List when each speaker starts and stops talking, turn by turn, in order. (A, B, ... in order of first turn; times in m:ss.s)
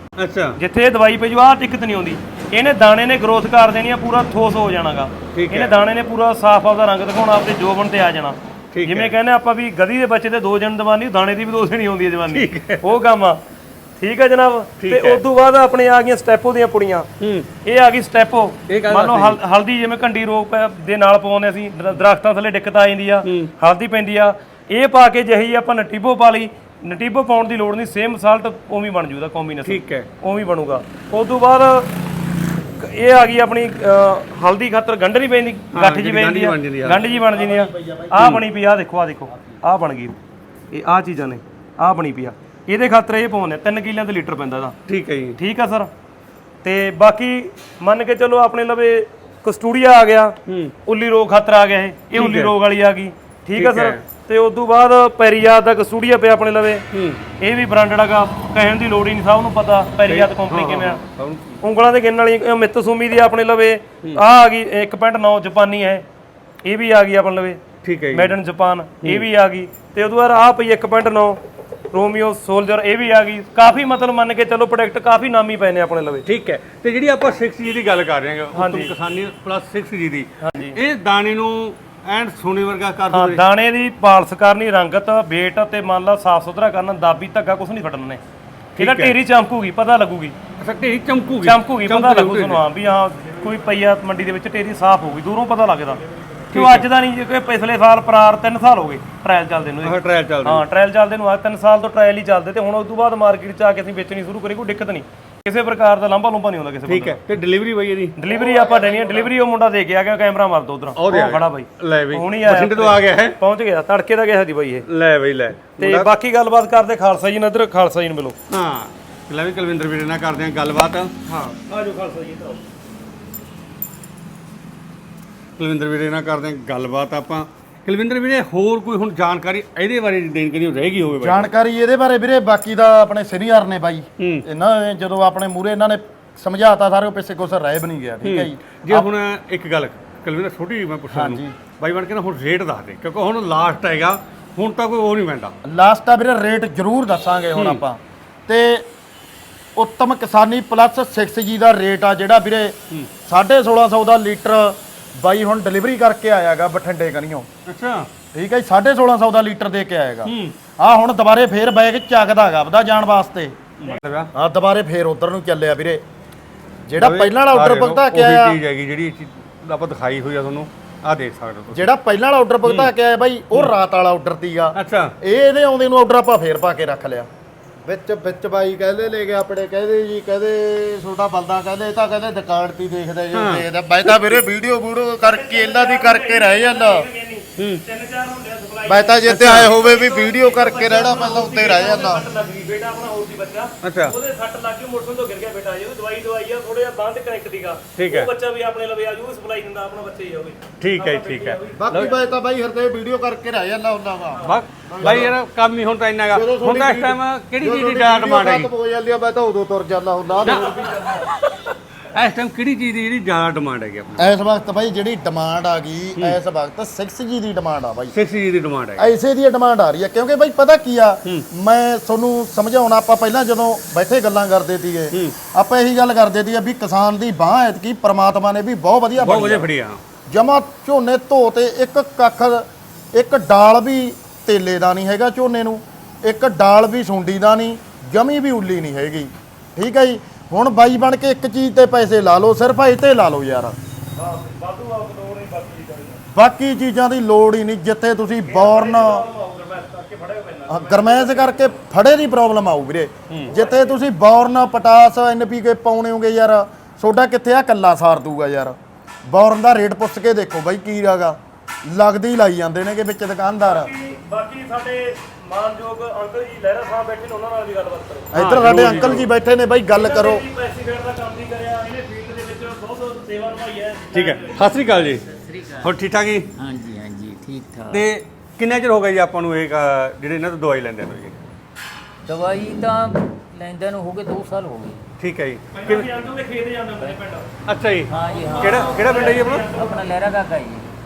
0:00.2-0:00.6 A
0:00.6-0:13.4 B
0:05.3-0:05.7 A
0:08.7-0:09.1 A
0:12.3-0:12.8 A
0:14.0-0:17.1 B
0:14.8-0:15.2 A
0:17.2-0:17.5 A
0:17.6-0:31.9 B
0:18.7-0:19.4 A
0:23.2-0:23.5 A
0:29.6-0:30.1 A
0:32.8-0:40.2 B
0:35.7-0:37.0 A
0:36.9-0:38.2 C
0:40.7-0:44.8 B
0:44.9-0:45.4 A
0:45.4-0:45.9 B
0:46.6-0:50.3 B
0:50.5-0:50.7 A
0:50.8-0:56.8 B
0:52.1-0:52.5 A
0:53.6-0:54.0 A
0:56.9-0:57.2 A
0:57.4-1:01.0 B
1:00.1-1:01.6 A
1:01.6-1:06.0 B
1:06.6-1:07.6 B
1:07.8-1:08.4 A
1:08.1-1:11.4 B
1:11.9-1:16.2 B
1:16.2-1:23.4 A
1:18.5-1:18.9 B
1:20.4-1:20.8 B
1:23.1-1:28.2 B
1:28.8-1:29.2 A
1:28.8-1:30.4 B
1:30.6-1:32.6 A
1:31.4-1:36.0 B
1:36.5-1:36.9 A
1:36.5-1:47.2 B
1:39.8-1:40.6 A
1:46.9-1:48.2 A
1:48.2-1:54.8 B
1:48.3-1:49.2 C
1:51.0-1:53.4 A
1:54.9-1:56.1 A
1:55.8-1:58.4 B
1:58.5-2:01.1 A
2:01.3-2:02.6 B
2:05.6-2:11.5 A
2:11.2-2:19.1 C
2:14.2-2:14.4 A
2:18.2-2:25.5 A
2:21.1-2:21.5 C
2:25.6-2:28.8 C
2:27.5-2:27.8 A
2:29.8-2:37.5 C
2:37.7-2:38.1 A
2:38.3-2:43.5 C
2:40.2-2:40.6 A
2:43.8-2:44.3 A
2:44.3-2:46.0 C
2:46.9-2:48.6 C
2:47.0-2:51.9 A
2:51.7-2:57.3 C
2:52.6-2:52.9 A
2:54.7-2:55.1 A
2:57.8-3:07.0 C
3:03.3-3:03.6 A
3:05.2-3:21.9 B
3:07.6-3:07.8 A
3:08.9-3:12.3 C
3:09.2-3:09.7 A
3:13.8-3:14.1 A
3:18.0-3:18.3 A
3:20.8-3:22.1 A
3:21.8-3:25.3 C
3:24.3-3:24.6 B
3:24.4-3:28.7 A
3:26.3-3:31.1 C
3:30.4-3:31.2 A
3:30.5-3:31.1 B
3:32.0-3:34.3 A
3:34.2-3:38.2 C
3:38.1-3:39.1 A
3:39.0-3:49.7 C
3:49.2-3:50.0 A
3:50.3-4:03.8 C
4:04.2-4:06.2 B
4:06.3-4:09.2 C
4:08.4-4:11.8 B
4:10.7-4:23.9 C
4:13.4-4:14.0 B
4:23.6-4:28.3 B
4:28.3-4:30.4 C
4:28.3-4:29.3 A
4:29.9-4:34.8 B
4:34.1-4:35.2 A
4:35.2-4:35.9 D
4:35.8-4:36.5 A
4:36.6-4:38.0 D
4:37.9-4:41.4 A
4:42.2-4:45.0 D
4:45.2-4:46.1 A
4:45.7-4:47.5 B
4:47.6-4:49.7 A
4:48.1-4:50.9 D
4:48.2-4:50.1 B